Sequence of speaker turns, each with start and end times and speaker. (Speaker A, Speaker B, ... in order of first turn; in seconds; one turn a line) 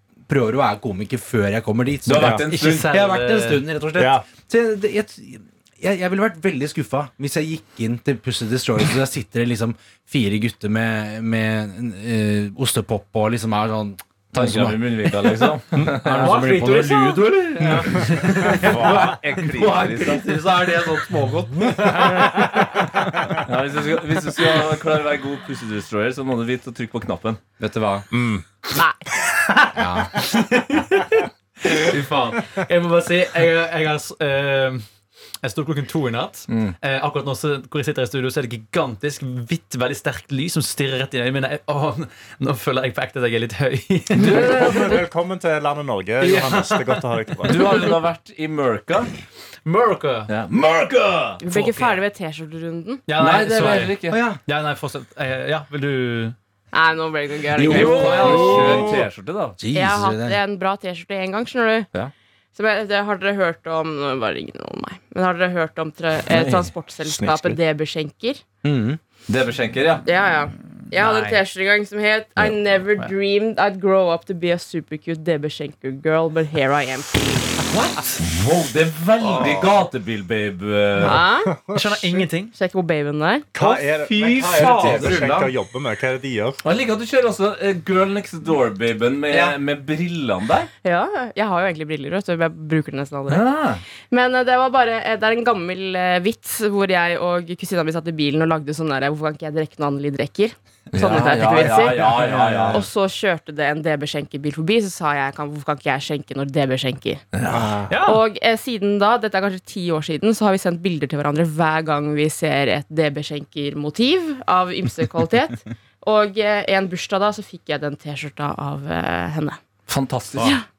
Speaker A: 0.3-23.4
Speaker B: 2.1-3.0
Speaker C: 2.1-2.4
Speaker D: 2.4-3.6
Speaker C: 4.0-4.2
Speaker B: 14.3-16.5
Speaker D: 16.1-18.9
Speaker B: 17.9-20.8
Speaker C: 18.5-19.2
Speaker B: 23.4-27.4
Speaker A: 27.6-28.1
Speaker C: 28.1-28.5
Speaker E: 28.8-29.0
Speaker C: 29.1-29.6
Speaker A: 29.7-30.2
Speaker D: 30.2-34.9
Speaker D: 35.4-45.0
Speaker B: 36.5-36.8
Speaker C: 44.2-47.9
Speaker B: 44.2-44.6
Speaker D: 46.2-47.9
Speaker B: 47.5-49.2
Speaker D: 49.6-50.3
Speaker B: 50.3-51.4
Speaker E: 51.4-53.0
Speaker D: 51.5-52.0
Speaker D: 53.1-56.4
Speaker B: 53.2-54.2
Speaker A: 54.1-54.4
Speaker E: 56.7-58.9
Speaker A: 57.5-58.5
Speaker B: 57.6-59.6
Speaker D: 57.7-58.8
Speaker C: 58.2-59.0
Speaker A: 59.6-60.4
Speaker E: 59.7-61.9
Speaker E: 62.5-68.4
Speaker B: 66.3-66.7
Speaker C: 67.0-67.6
Speaker A: 68.6-69.0
Speaker B: 69.3-70.1
Speaker E: 70.1-77.5
Speaker D: 70.9-71.4
Speaker B: 78.0-81.2
Speaker A: 79.2-79.7
Speaker E: 81.0-81.5
Speaker C: 81.0-82.2
Speaker D: 81.7-82.5
Speaker E: 82.5-83.5
Speaker C: 83.5-86.6
Speaker A: 83.6-85.5
Speaker B: 84.6-85.0
Speaker B: 86.6-90.7
Speaker A: 89.3-89.6
Speaker E: 90.8-93.5
Speaker B: 93.3-93.8
Speaker E: 94.1-107.2
Speaker B: 100.9-102.8
Speaker D: 101.2-102.8
Speaker A: 102.3-102.7
Speaker B: 107.3-107.8
Speaker C: 107.5-108.0
Speaker D: 107.9-108.2
Speaker E: 108.0-119.6
Speaker B: 119.9-120.6